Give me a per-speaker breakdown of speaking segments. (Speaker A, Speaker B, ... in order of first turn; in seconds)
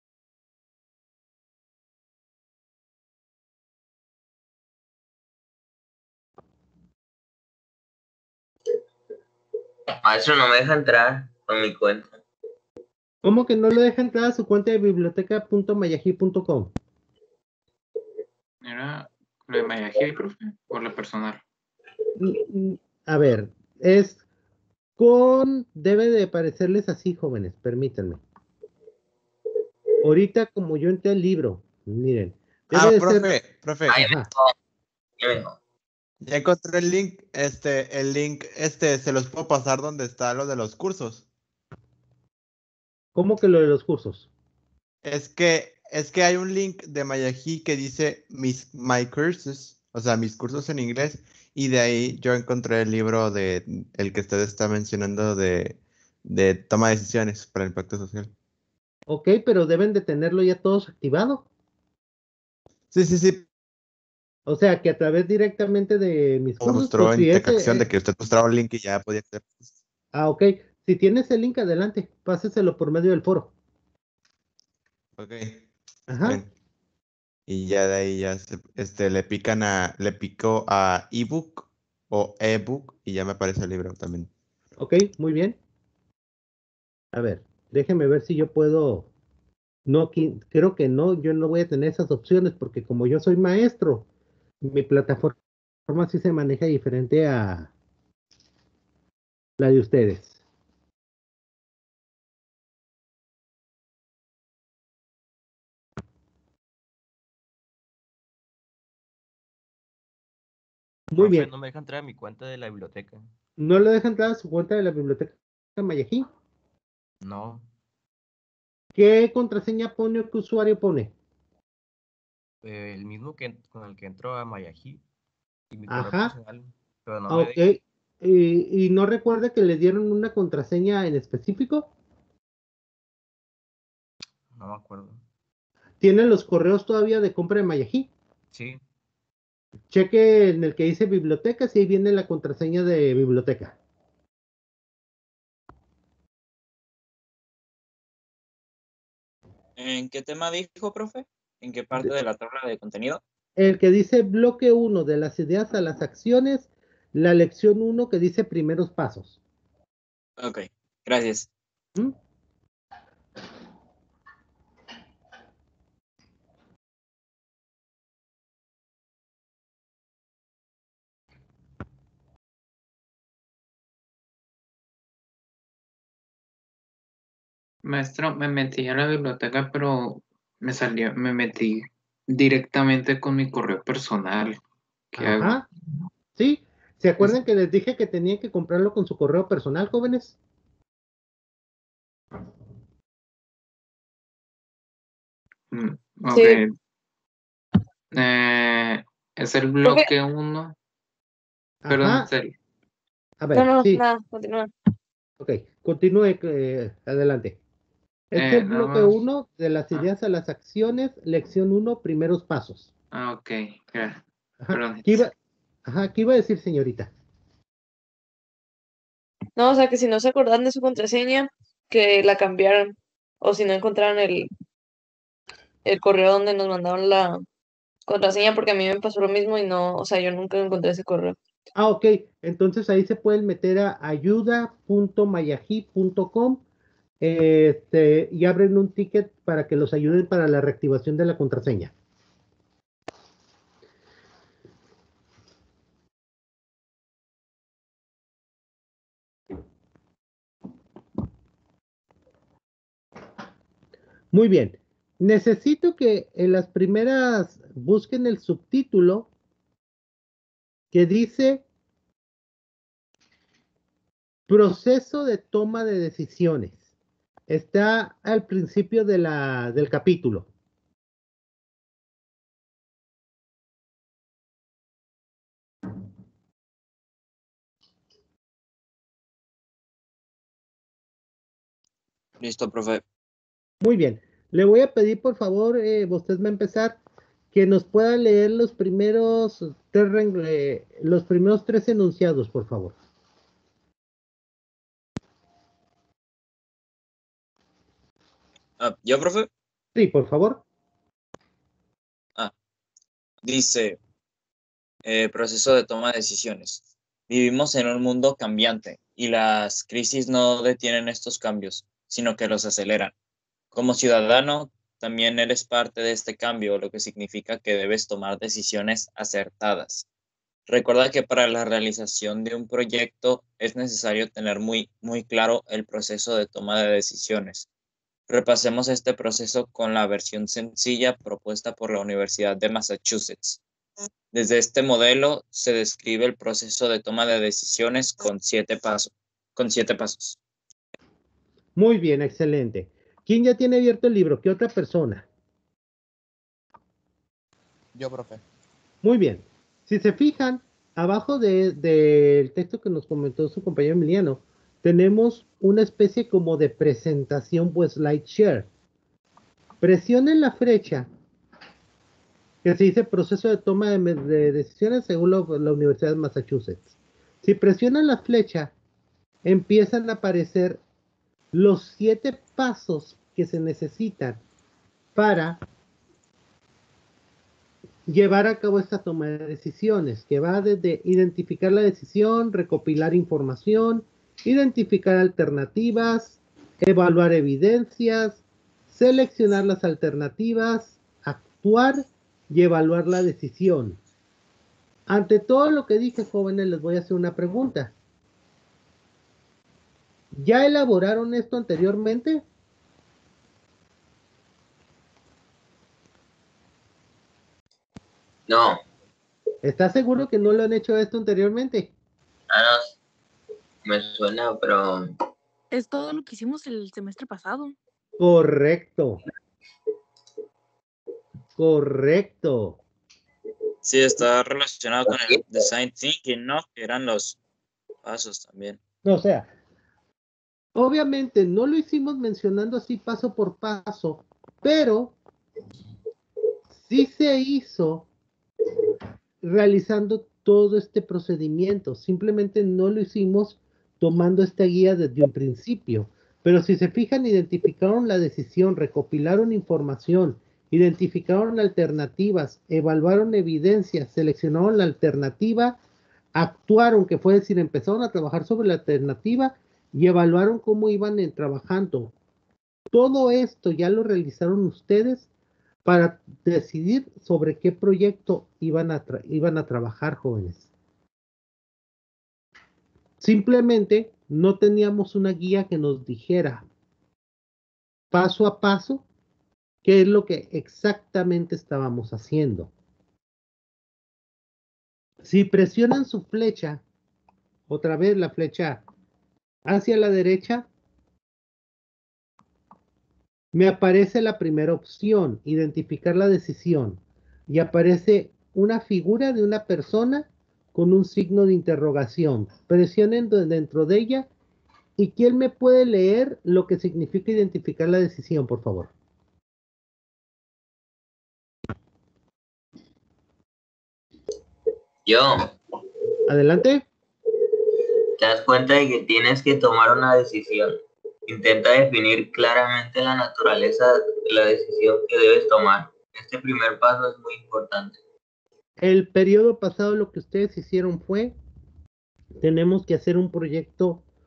Speaker A: 10.0-12.2, 33.9-34.5, 35.2-35.6, 408.5-408.8, 412.5-412.9, 413.8-415.1, 515.0-515.5, 518.2-528.0
Speaker B: 13.2-16.7, 22.2-24.2, 25.0-28.2, 30.0-33.4, 34.0-34.3, 43.1-44.3, 59.1-61.5, 64.5-67.9, 70.1-73.5, 76.1-76.4, 84.8-85.6, 87.1-89.1, 89.9-94.1, 94.6-97.7, 99.6-100.4, 111.1-111.5, 113.6-116.2, 119.0-121.1, 125.9-126.3, 127.3-131.9, 136.0-138.1, 139.9-143.8, 153.6-159.4, 185.2-185.7, 186.4-190.4, 201.8-202.3, 203.4-204.0, 205.4-207.6, 208.3-212.9, 214.6-215.3, 215.9-217.1, 231.8-236.6, 237.2-241.9, 254.3-259.3, 260.9-261.6, 264.5-266.9, 267.5-270.5, 283.8-287.0, 287.5-292.9, 300.0-300.6, 341.8-345.3, 349.0-358.7, 359.8-361.1, 362.6-368.7, 369.4-370.8, 371.5-374.4, 375.1-375.6, 378.1-394.0, 395.1-397.9, 400.3-402.4, 409.6-411.9, 418.2-419.2, 421.6-422.8, 429.0-429.5, 430.8-435.2, 436.8-438.1, 439.4-455.8, 456.4-462.1, 462.9-465.3, 465.9-470.7, 473.2-476.6, 478.1-479.0, 479.8-482.7, 485.2-486.8, 487.7-488.8, 489.6-490.7, 493.5-504.3, 505.0-508.9, 516.3-516.9, 528.8-531.4, 532.4-534.0
Speaker C: 18.6-21.4, 177.8-184.6, 185.1-185.6, 195.7-196.7, 198.1-200.8, 201.9-202.5, 208.4-209.2, 213.1-215.2
Speaker D: 32.7-34.0, 36.2-41.2, 45.0-58.3, 62.9-63.5, 66.6-69.6, 75.2-75.6, 76.2-76.5, 77.5-84.3
Speaker E: 111.2-113.3, 117.2-117.7, 122.6-125.0, 125.7-127.7, 134.5-135.2, 138.5-138.8, 347.9-348.4
Speaker F: 149.8-153.2, 160.4-161.5, 282.4-283.0, 298.8-299.5, 303.4-304.0, 305.1-313.1, 313.7-320.1, 320.7-327.7, 328.3-333.6, 334.3-340.4, 423.8-427.4, 428.0-428.8
Speaker G: 196.3-196.6, 199.8-200.1, 203.5-204.7, 219.6-224.5, 225.8-227.4, 228.1-231.4
Speaker H: 415.7-417.8